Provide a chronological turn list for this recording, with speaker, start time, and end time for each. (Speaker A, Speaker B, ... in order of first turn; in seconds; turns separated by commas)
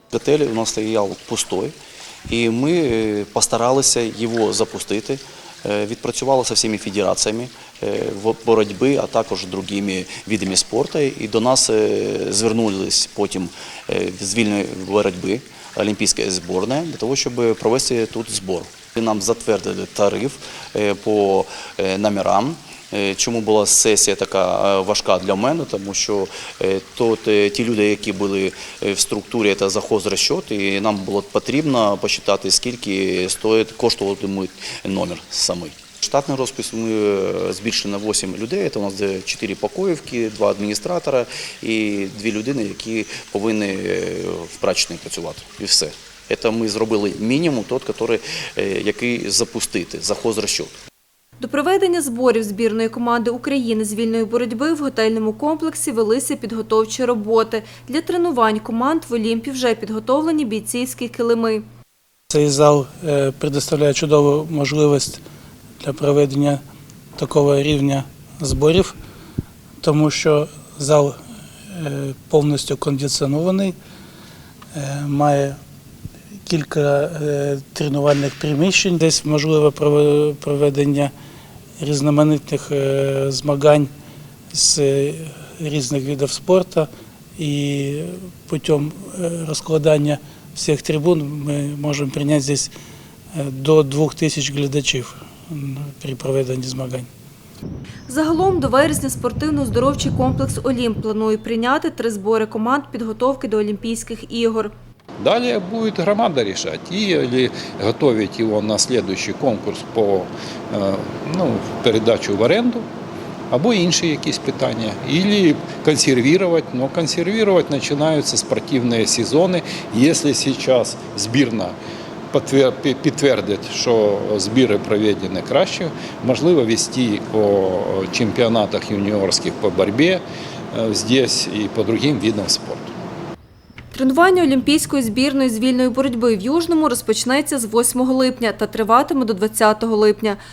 Speaker A: 0.1-1.8, Speaker A: 2.3-50.8, Speaker B: 51.4-61.6, Speaker C: 62.3-65.2, Speaker C: 65.8-66.6, Speaker C: 67.2-69.0, Speaker C: 69.8-73.8, Speaker C: 74.7-75.6, Speaker C: 76.4-81.1, Speaker C: 81.8-83.9, Speaker C: 84.5-92.8, Speaker C: 93.3-97.1, Speaker B: 98.1-104.7, Speaker D: 105.2-112.8, Speaker D: 113.5-121.8, Speaker D: 122.3-132.9, Speaker B: 133.9-140.4